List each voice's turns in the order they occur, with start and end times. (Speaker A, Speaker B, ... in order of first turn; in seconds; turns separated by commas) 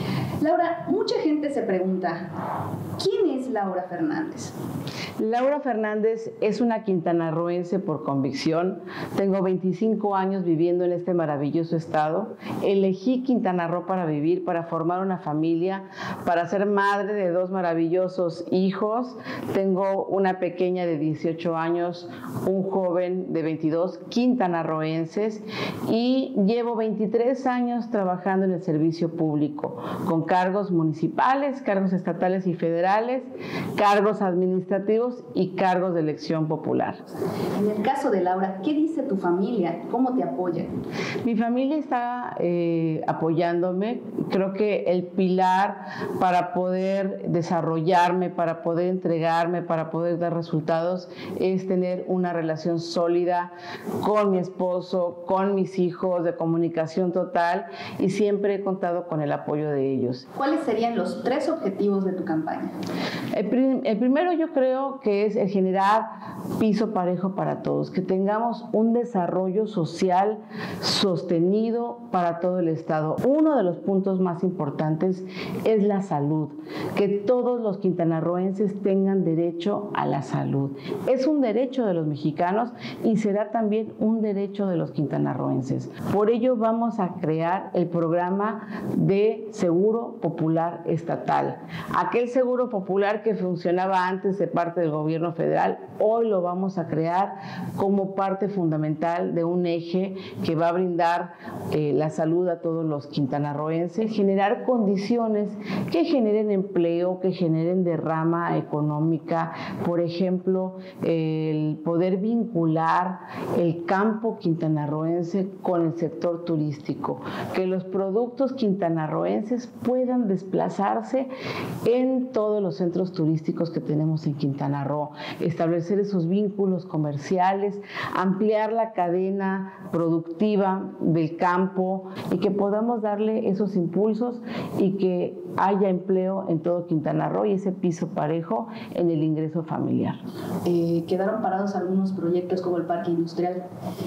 Speaker A: 0.4-2.3, Speaker A: 3.0-4.5, Speaker B: 5.2-37.0, Speaker A: 37.5-40.8, Speaker B: 41.2-60.3, Speaker A: 60.3-62.8, Speaker B: 63.3-66.0, Speaker B: 66.6-121.3, Speaker B: 121.8-140.2, Speaker A: 140.6-143.6